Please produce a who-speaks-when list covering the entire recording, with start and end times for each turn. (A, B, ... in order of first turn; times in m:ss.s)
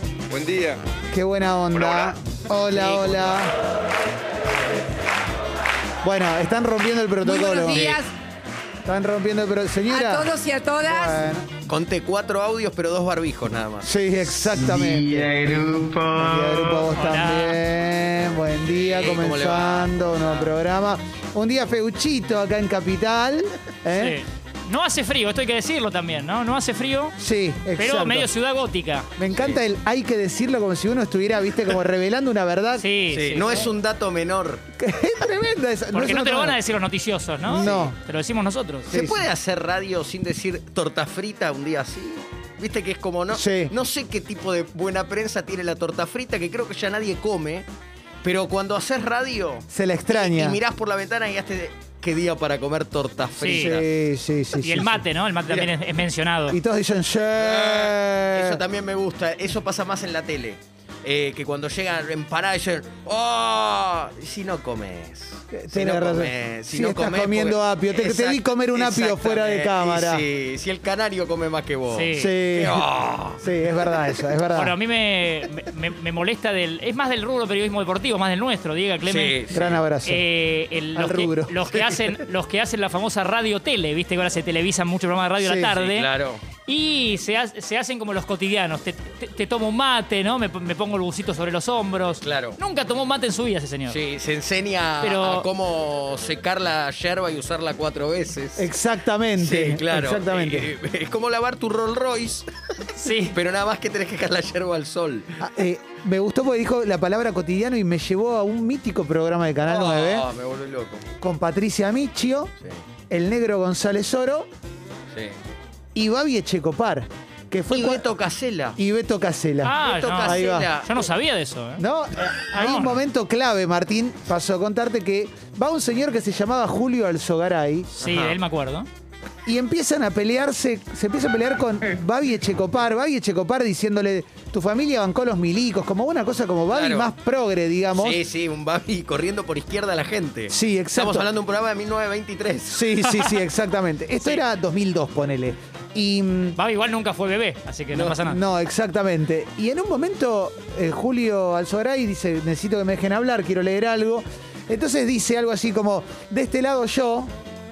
0:01.1-0:03.5 A
0:01.7-0:02.1 B
0:02.7-0:03.4 B
0:06.0-0:08.0 A
0:07.2-0:08.1 C
0:07.7-0:08.0 B
0:08.8-0:10.3 A
0:09.9-0:11.2 C
0:10.8-0:11.4 A
0:11.7-0:13.9 B
0:13.8-0:15.3 A
0:14.6-0:16.8 B
0:16.1-0:24.2 A
0:16.9-0:17.6 D
0:18.7-0:20.5 B
0:24.0-0:27.2 D
0:27.2-0:28.3 A
0:27.8-0:29.1 D
0:29.2-0:32.8 A
0:29.3-0:29.6 B
0:32.8-0:33.7 D
0:33.1-0:34.6 B
0:34.8-0:36.6 A
0:35.9-0:38.9 D
0:37.5-0:37.9 A
0:37.5-0:37.9 B
0:38.9-0:47.7 B
0:38.9-0:39.2 A
0:43.3-0:43.7 A
0:48.2-0:53.8 B
0:49.7-0:50.6 A
0:53.4-0:53.8 D
0:53.6-0:55.0 A
0:54.6-0:56.6 D
0:56.5-0:58.6 A
0:57.4-1:13.4 B
1:05.5-1:10.2 A
1:11.9-1:12.3 D
1:12.1-1:12.9 A
1:13.4-1:14.7 A
1:14.5-1:19.4 D
1:19.0-1:19.8 B
1:19.5-1:20.2 A
1:20.0-1:26.1 D
1:20.9-1:21.5 A
1:21.7-1:22.0 B
1:25.4-1:25.7 A
1:25.7-1:26.4 B
1:26.6-1:34.0 D
1:32.2-1:32.6 B
1:33.9-1:38.7 B
1:35.0-1:35.5 D
1:38.6-1:40.7 A
1:39.4-1:45.3 B
1:43.0-1:43.4 D
1:45.4-1:50.2 A
1:49.7-1:51.0 B
1:51.2-1:52.5 A
1:53.1-1:54.5 A
1:55.1-1:55.4 B
1:55.9-1:58.0 A
1:57.7-1:58.8 B
1:58.8-2:00.7 A
1:59.6-2:01.8 D
1:59.8-2:01.1 B
2:01.8-2:07.9 A
2:02.6-2:03.0 D
2:08.0-2:08.4 B
2:08.0-2:08.9 D
2:09.4-2:18.2 A
2:16.7-2:17.1 B
2:17.9-2:22.8 B
2:20.5-2:21.3 A
2:22.7-2:26.6 A
2:26.6-2:28.4 D
2:27.9-2:28.2 B
2:28.2-2:37.3 A